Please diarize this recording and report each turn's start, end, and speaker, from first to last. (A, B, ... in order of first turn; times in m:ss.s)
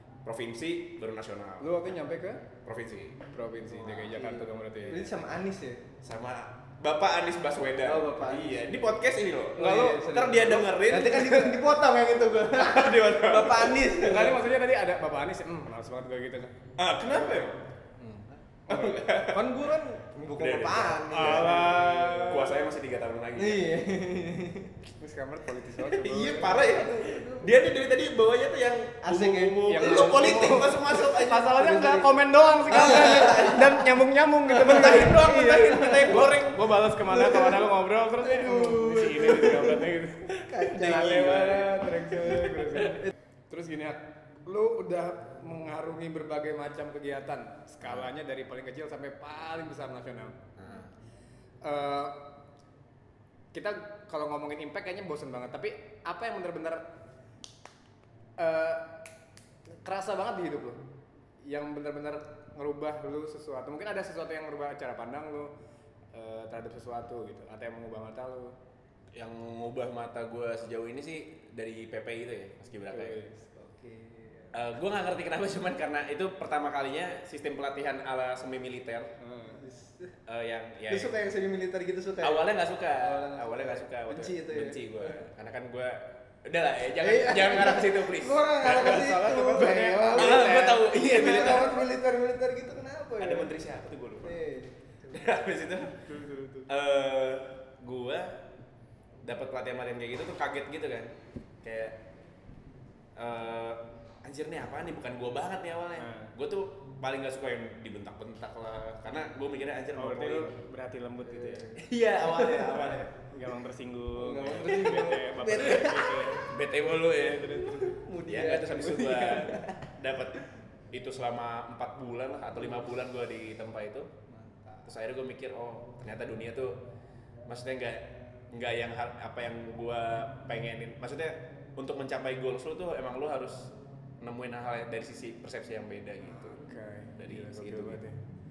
0:00.2-0:01.9 A
0:01.6-0:02.4 B
0:02.6-0:04.0 A
0:03.3-0:05.1 B
0:04.1-0:05.8 C
0:06.0-0:11.7 A
0:07.8-0:08.7 C
0:09.6-0:14.4 C
0:12.5-0:13.9 A
0:14.0-0:16.5 B
0:16.8-0:17.6 A
0:17.1-0:17.5 B
0:18.0-0:18.4 C
0:18.7-0:19.1 B
0:18.7-0:19.4 A
0:19.2-0:22.5 C
0:20.4-0:23.7 A
0:21.1-0:22.5 B
0:23.4-0:24.7 C
0:25.0-0:26.8 B
0:25.8-0:32.0 A
0:26.4-0:27.6 C
0:29.0-0:30.7 C
0:29.6-0:50.4 B
0:31.6-0:32.0 C
0:32.7-0:33.8 C
0:32.7-0:33.2 A
0:34.5-0:36.4 A
0:34.6-0:36.2 C
0:37.1-0:37.7 C
0:38.2-0:39.8 C
0:40.4-0:41.7 C
0:47.8-0:48.1 A
0:50.6-0:50.9 A
0:51.6-0:52.2 B
0:53.5-0:56.8 B
0:58.4-0:58.9 B
0:59.8-1:00.8 B
1:01.4-1:05.5 B
1:06.1-1:08.6 B
1:09.1-1:13.2 A
1:12.9-1:13.4 B
1:13.5-1:14.5 C
1:14.5-1:19.1 A
1:19.2-1:19.6 B
1:19.6-1:20.1 C
1:20.3-1:21.1 A
1:20.9-1:25.2 C
1:22.2-1:31.9 A
1:27.0-1:33.5 C
1:28.6-1:30.8 B
1:33.2-1:34.4 A
1:34.2-1:35.2 C
1:35.1-1:35.9 A
1:36.1-1:36.7 B
1:36.7-1:38.4 A
1:39.2-1:42.0 A
1:43.2-1:50.5 A
1:46.0-1:46.3 B
1:49.9-1:51.7 B
1:51.2-1:53.0 C
1:51.8-1:53.1 A
1:53.2-1:56.5 B
1:54.2-1:56.3 C
1:54.5-1:55.1 A
1:55.7-2:00.4 A
1:57.4-1:59.8 C
2:00.9-2:04.1 A
2:04.3-2:04.9 C
2:04.8-2:06.8 A
2:07.5-2:16.6 A
2:16.2-2:18.2 B
2:17.2-2:18.0 A